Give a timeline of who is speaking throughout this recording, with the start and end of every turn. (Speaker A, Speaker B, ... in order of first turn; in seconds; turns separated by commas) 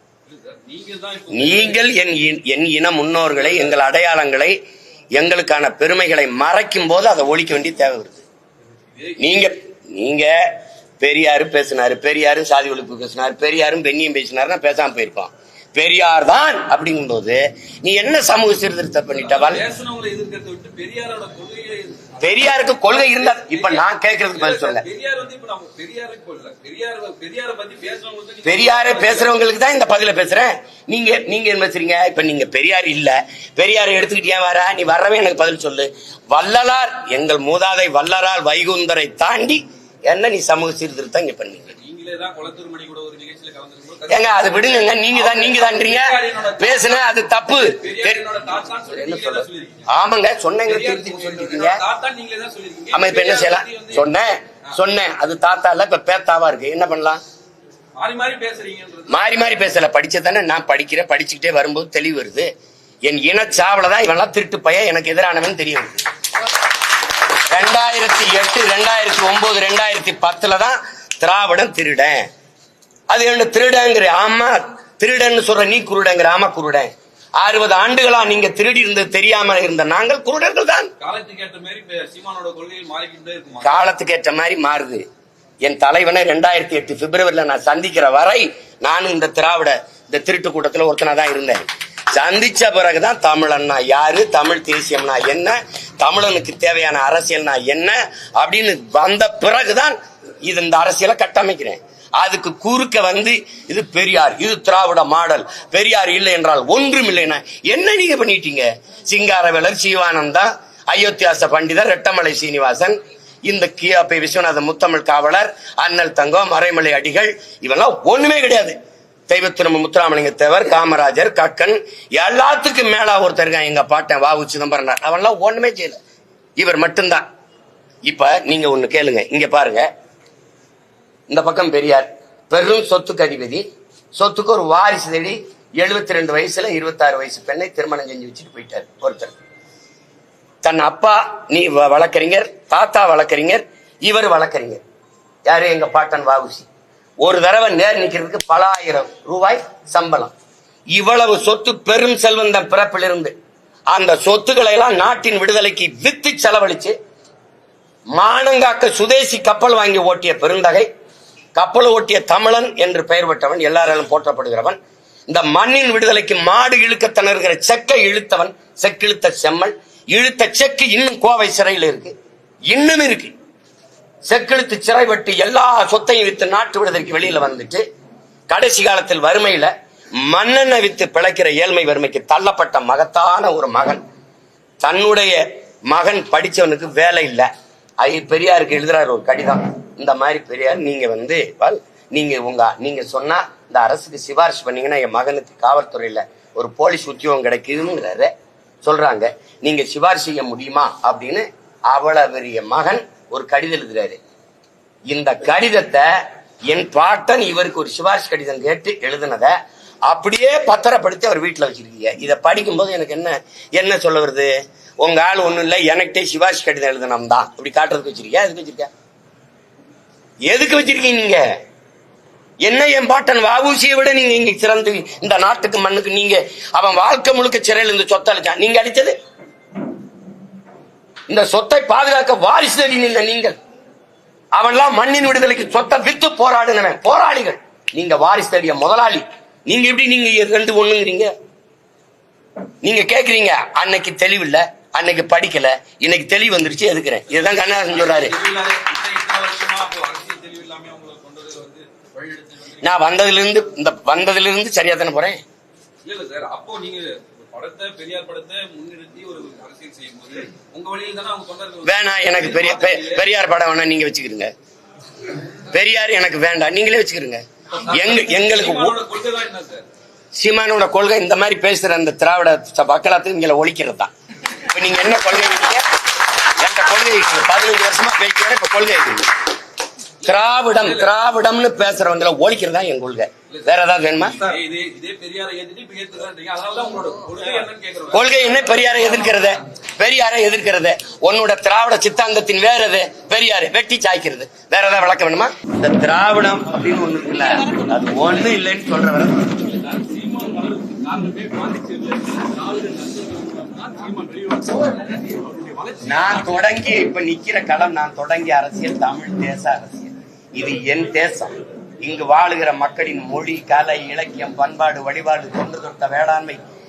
Speaker A: 0.2-2.2, Speaker B: 1.3-4.5, Speaker A: 3.3-3.8, Speaker B: 5.1-8.2, Speaker A: 8.9-9.5, Speaker B: 9.2-19.6, Speaker A: 19.1-29.4, Speaker B: 22.2-24.8, Speaker B: 28.4-41.7, Speaker A: 41.8-49.9, Speaker B: 44.1-48.2, Speaker B: 48.9-51.8, Speaker A: 50.6-54.0, Speaker B: 52.9-57.2, Speaker A: 58.0-59.4, Speaker B: 59.1-62.5, Speaker B: 63.0-66.0, Speaker B: 67.5-72.3, Speaker B: 73.1-80.9, Speaker A: 81.0-83.9, Speaker B: 83.6-85.0, Speaker B: 85.6-118.8, Speaker B: 119.3-126.0, Speaker B: 126.6-127.2, Speaker B: 128.1-129.9, Speaker B: 131.3-139.3, Speaker B: 140.6-144.8, Speaker B: 145.4-146.7, Speaker B: 147.2-150.3, Speaker B: 150.9-153.3, Speaker B: 153.9-156.9, Speaker B: 158.1-160.9, Speaker B: 161.5-164.8, Speaker B: 165.3-172.1, Speaker B: 172.7-173.3, Speaker B: 174.2-177.8, Speaker B: 178.5-184.0, Speaker B: 184.8-187.5, Speaker B: 188.0-198.3, Speaker B: 198.8-204.2, Speaker B: 205.1-206.1, Speaker B: 206.7-218.9, Speaker B: 220.4-221.4, Speaker B: 222.6-229.1, Speaker B: 231.3-233.6, Speaker B: 234.5-241.3, Speaker B: 242.8-248.3, Speaker A: 247.3-253.1, Speaker B: 252.8-255.4, Speaker A: 256.0-263.3, Speaker B: 261.8-264.5, Speaker B: 265.7-269.0, Speaker A: 267.7-269.8, Speaker B: 270.4-279.3, Speaker A: 280.2-281.1, Speaker B: 280.2-284.4, Speaker A: 283.5-289.5, Speaker B: 288.1-299.6, Speaker A: 299.7-306.7, Speaker B: 306.0-316.6